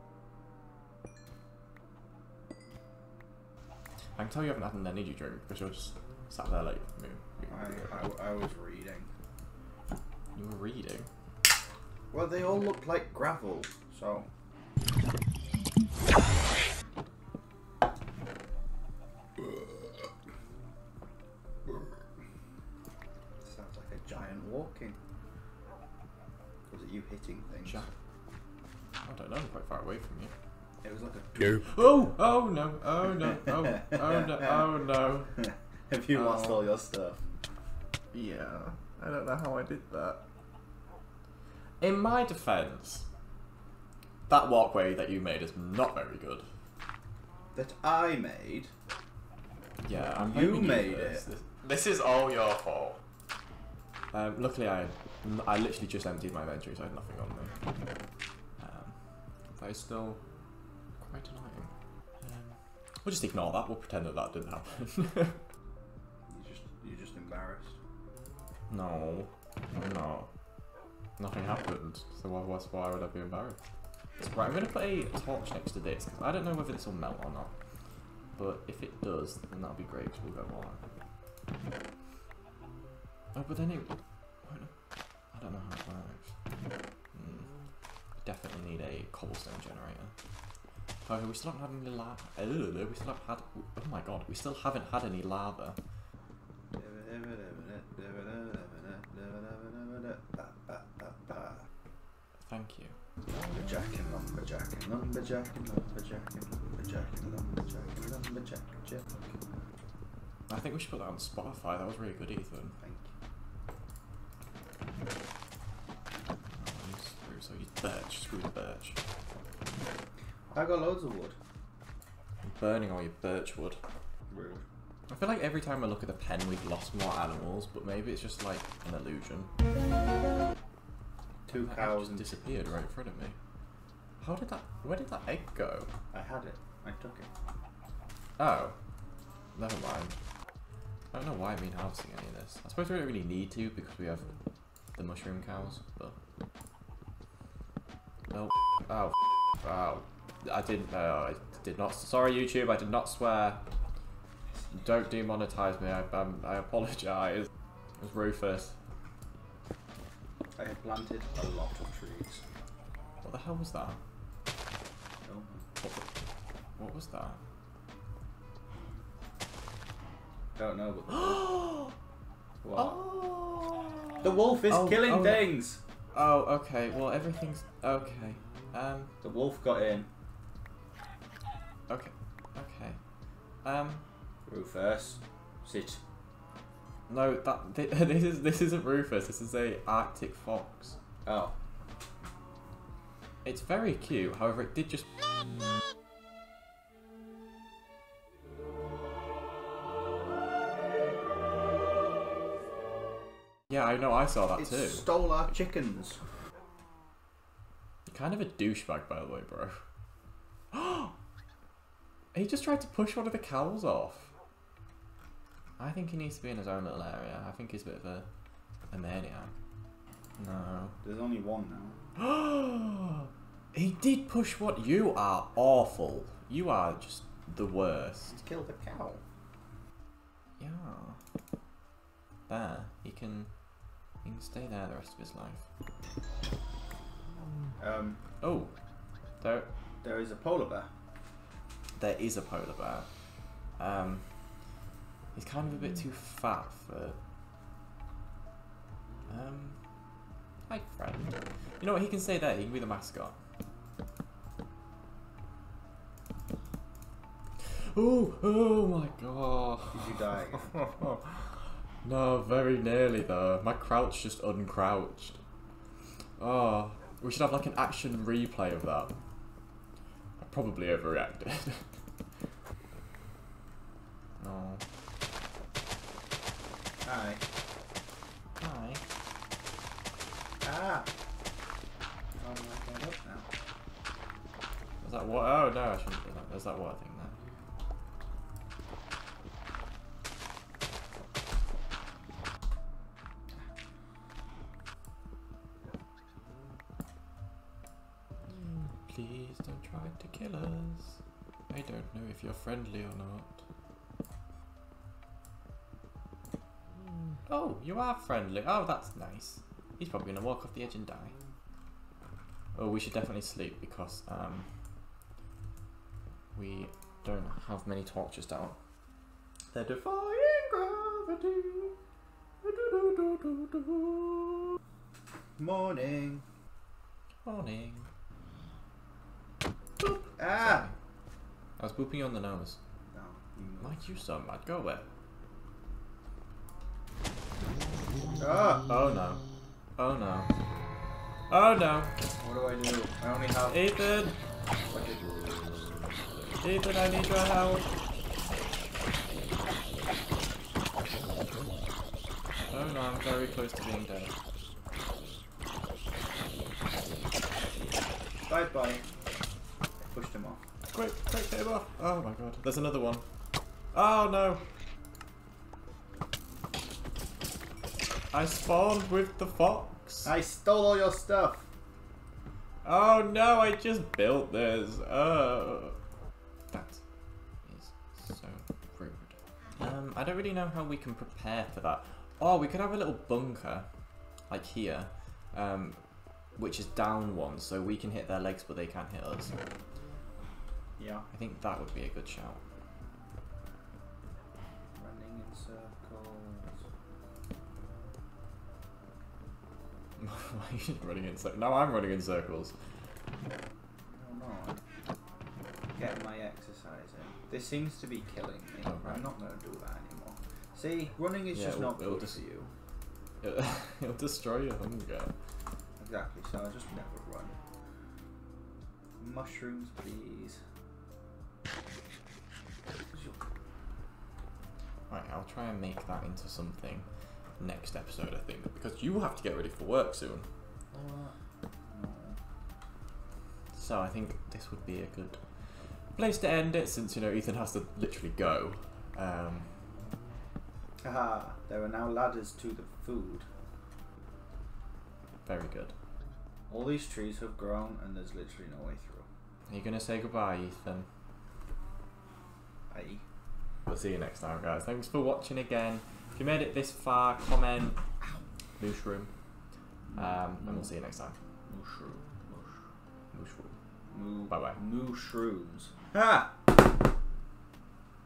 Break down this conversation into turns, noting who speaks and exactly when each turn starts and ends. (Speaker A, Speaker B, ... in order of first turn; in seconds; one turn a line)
Speaker A: 4.2-8.1
Speaker B: 7.5-9.1
Speaker A: 10.3-11.1
Speaker B: 12.1-14.3
Speaker B: 19.4-20.1
Speaker B: 21.6-22.0
Speaker B: 23.4-25.0
Speaker B: 26.7-27.9
Speaker A: 27.6-27.9
Speaker A: 29.0-30.3
Speaker B: 30.8-31.7
Speaker A: 31.6-35.4
Speaker B: 33.8-34.5
Speaker B: 35.4-37.2
Speaker A: 36.1-36.7
Speaker A: 38.1-40.2
Speaker A: 41.8-43.1
Speaker A: 44.3-46.5
Speaker B: 47.5-48.7
Speaker A: 49.8-53.0
Speaker B: 50.2-51.3
Speaker A: 54.1-57.5
Speaker A: 58.6-59.0
Speaker A: 59.5-60.2
Speaker A: 61.0-65.4
Speaker B: 66.3-67.8
Speaker A: 68.7-70.3
Speaker A: 71.2-73.6
Speaker A: 74.2-77.5
Speaker A: 78.3-80.8
Speaker A: 83.3-84.7
Speaker A: 85.3-86.3
Speaker A: 87.1-87.5
Speaker A: 88.2-90.1
Speaker A: 91.0-95.8
Speaker B: 96.7-101.7
Speaker A: 102.4-103.0
Speaker B: 103.3-109.3
Speaker A: 110.5-112.8
Speaker B: 112.8-113.1
Speaker A: 116.5-119.0
Speaker B: 120.5-121.4
Speaker A: 122.4-123.8
Speaker B: 124.3-124.6
Speaker A: 125.1-129.5
Speaker B: 131.5-132.7
Speaker A: 131.5-133.4
Speaker A: 134.2-135.9
Speaker B: 136.1-137.3
Speaker A: 138.4-138.8
Speaker A: 139.6-140.2
Speaker A: 141.1-144.3
Speaker A: 145.0-146.2
Speaker A: 148.3-153.6
Speaker A: 154.7-158.8
Speaker B: 160.6-162.4
Speaker A: 163.2-164.0
Speaker B: 165.2-165.7
Speaker A: 165.8-166.1
Speaker A: 166.8-167.4
Speaker B: 170.6-171.5
Speaker A: 171.2-171.9
Speaker B: 172.6-173.0
Speaker A: 172.8-175.6
Speaker B: 174.2-175.8
Speaker A: 176.1-179.1
Speaker B: 179.2-180.1
Speaker A: 181.9-183.0
Speaker A: 183.6-184.0
Speaker B: 184.5-186.0
Speaker A: 187.1-191.0
Speaker B: 191.2-191.6
Speaker A: 193.4-195.1
Speaker A: 203.7-205.2
Speaker B: 204.6-206.2
Speaker A: 208.1-209.8
Speaker A: 210.7-211.1
Speaker A: 212.3-214.3
Speaker A: 215.8-218.3
Speaker A: 218.9-219.5
Speaker A: 220.4-221.0
Speaker B: 221.0-222.0
Speaker A: 222.2-228.3
Speaker B: 228.3-229.2
Speaker A: 230.6-231.2
Speaker A: 232.5-233.6
Speaker A: 234.2-235.7
Speaker B: 237.8-238.2
Speaker A: 238.4-238.8
Speaker A: 239.4-239.7
Speaker B: 240.0-240.9
Speaker A: 242.0-243.2
Speaker A: 243.8-244.5
Speaker A: 245.3-247.2
Speaker A: 249.3-249.8
Speaker A: 250.7-253.4
Speaker A: 257.6-265.4
Speaker B: 259.9-260.8
Speaker A: 266.4-269.2
Speaker A: 270.4-272.0
Speaker A: 274.4-274.8
Speaker B: 277.0-277.4
Speaker A: 278.6-279.0
Speaker B: 280.6-281.1
Speaker B: 282.4-283.5
Speaker A: 285.0-287.4
Speaker A: 298.9-303.6
Speaker A: 307.5-311.3
Speaker A: 312.8-314.7
Speaker A: 316.5-318.8
Speaker B: 319.7-321.9
Speaker A: 322.7-324.6
Speaker B: 325.6-326.4
Speaker A: 327.4-328.1
Speaker B: 330.0-330.9
Speaker A: 330.6-330.9
Speaker A: 331.8-332.8
Speaker B: 333.1-334.1
Speaker A: 333.8-335.1
Speaker B: 338.4-338.9
Speaker A: 338.9-339.4
Speaker A: 340.0-340.5
Speaker A: 341.5-342.1
Speaker B: 342.4-343.9
Speaker A: 343.6-344.4
Speaker B: 344.9-345.4
Speaker A: 346.6-347.9
Speaker A: 352.7-354.3
Speaker B: 358.5-359.0
Speaker B: 360.0-360.6
Speaker A: 360.9-363.2
Speaker A: 363.9-364.6
Speaker A: 368.3-370.3
Speaker B: 370.2-371.7
Speaker A: 372.8-376.0
Speaker A: 376.7-377.0
Speaker A: 377.6-383.9
Speaker A: 384.5-389.5
Speaker B: 391.0-391.3
Speaker A: 391.3-392.6
Speaker B: 395.0-396.9
Speaker A: 400.2-402.7
Speaker B: 404.1-404.8
Speaker B: 406.0-412.7
Speaker A: 408.9-409.2
Speaker A: 411.5-412.4
Speaker A: 413.4-415.3
Speaker B: 416.0-417.6
Speaker B: 419.2-420.6
Speaker B: 423.1-423.4
Speaker A: 425.1-427.1
Speaker A: 427.6-430.5
Speaker B: 430.9-432.4
Speaker A: 433.7-435.4
Speaker A: 436.1-439.8
Speaker B: 441.0-443.5
Speaker A: 445.4-445.9
Speaker B: 446.7-449.3
Speaker A: 449.7-451.1
Speaker B: 452.9-453.2
Speaker A: 453.9-458.0
Speaker A: 458.8-459.3
Speaker B: 460.1-460.9
Speaker A: 460.1-461.4
Speaker B: 461.7-462.8
Speaker A: 463.3-463.8
Speaker B: 464.1-466.5
Speaker A: 464.5-464.8